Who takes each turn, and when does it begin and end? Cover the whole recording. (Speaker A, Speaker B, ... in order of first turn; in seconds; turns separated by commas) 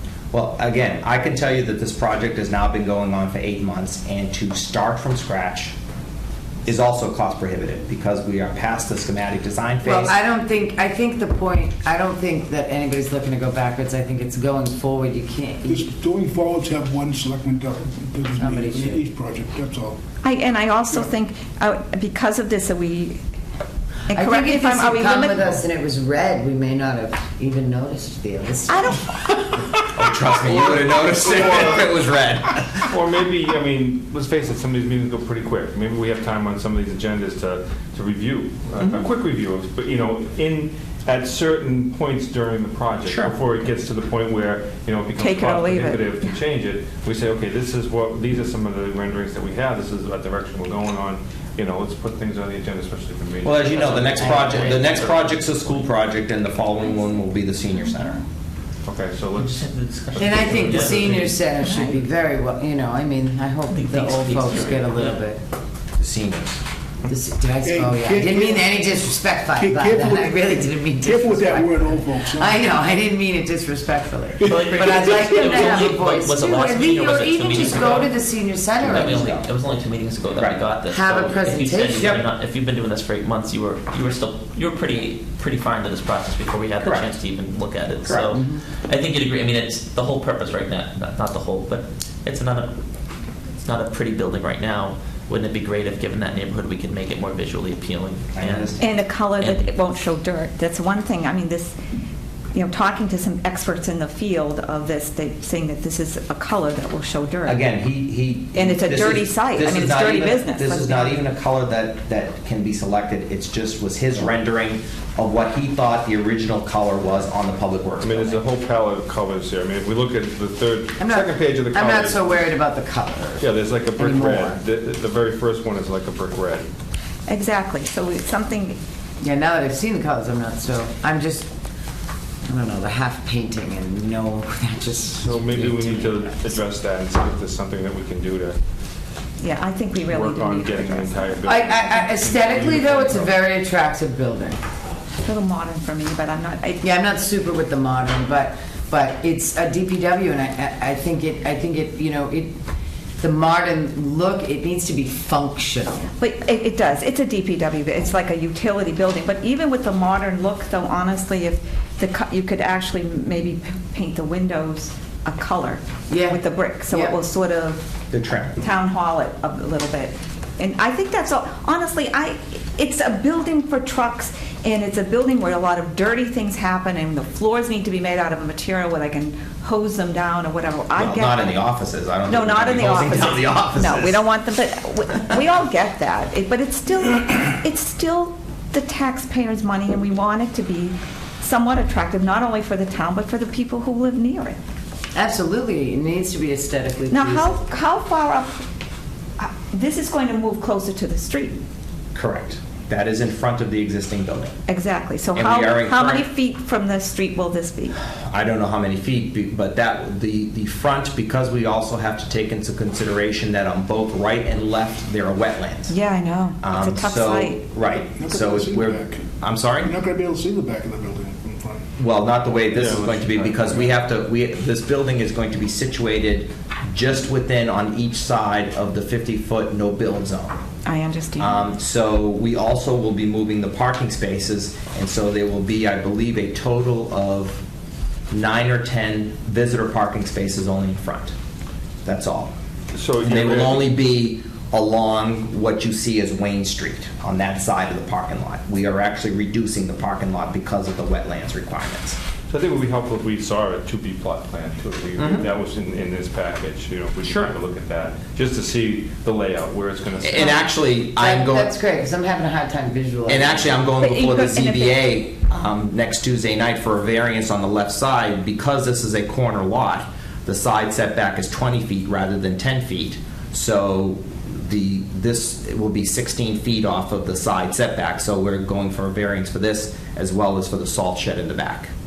Speaker A: 0.3-5.8, Speaker A: 6.7-10.2, Speaker B: 9.8-15.9, Speaker C: 15.7-20.0, Speaker B: 18.4-19.0, Speaker D: 20.2-23.2, Speaker D: 24.1-25.6, Speaker B: 24.1-29.0, Speaker D: 28.7-29.4, Speaker A: 29.9-32.9, Speaker E: 30.5-31.9, Speaker E: 32.9-54.5, Speaker A: 38.8-39.1, Speaker A: 43.0-43.4, Speaker D: 45.2-46.1, Speaker A: 53.4-58.2, Speaker F: 54.1-55.9, Speaker B: 54.2-55.1, Speaker E: 58.8-61.3, Speaker F: 59.4-61.4, Speaker B: 60.2-65.4, Speaker D: 61.6-62.0, Speaker F: 63.7-65.2, Speaker A: 66.0-66.6, Speaker B: 67.1-79.4, Speaker C: 67.6-72.7, Speaker C: 74.4-75.6, Speaker F: 74.5-78.2, Speaker F: 78.8-92.7, Speaker A: 78.8-79.5, Speaker A: 80.4-80.7, Speaker B: 80.9-82.2, Speaker A: 82.0-82.3, Speaker A: 86.8-87.1, Speaker A: 88.0-88.3, Speaker B: 88.3-88.6, Speaker F: 93.6-98.8, Speaker A: 98.3-99.0, Speaker D: 98.8-101.8, Speaker F: 99.4-99.7, Speaker D: 102.5-107.6, Speaker A: 107.5-118.4, Speaker D: 108.5-111.2, Speaker E: 118.0-122.5, Speaker B: 121.0-124.6, Speaker E: 123.4-126.7, Speaker D: 127.3-128.8, Speaker B: 129.2-131.5, Speaker B: 132.5-136.6, Speaker E: 135.2-138.6, Speaker D: 139.4-141.7, Speaker E: 140.1-143.4, Speaker B: 141.5-144.6, Speaker D: 145.2-146.8, Speaker B: 146.8-152.6, Speaker B: 153.2-156.1, Speaker D: 156.2-167.9, Speaker B: 166.1-167.2, Speaker A: 168.1-168.6, Speaker D: 168.6-181.5, Speaker A: 181.0-184.2, Speaker D: 182.3-194.6, Speaker B: 195.1-197.6, Speaker D: 197.1-198.7, Speaker D: 199.4-201.6, Speaker A: 202.1-204.6, Speaker D: 204.7-208.0, Speaker A: 205.3-206.3, Speaker A: 208.1-216.0, Speaker D: 215.9-217.6, Speaker A: 216.6-219.9, Speaker C: 218.2-219.3, Speaker C: 219.8-221.9, Speaker A: 222.0-230.6, Speaker E: 222.7-223.9, Speaker D: 230.9-231.6, Speaker A: 231.4-237.6, Speaker A: 238.3-241.3, Speaker A: 242.1-242.5, Speaker E: 242.9-243.9, Speaker A: 243.2-252.2, Speaker E: 252.5-260.7, Speaker A: 255.2-255.5, Speaker A: 257.2-257.5, Speaker A: 260.2-261.7, Speaker B: 261.2-263.7, Speaker A: 263.3-281.9, Speaker D: 264.0-265.0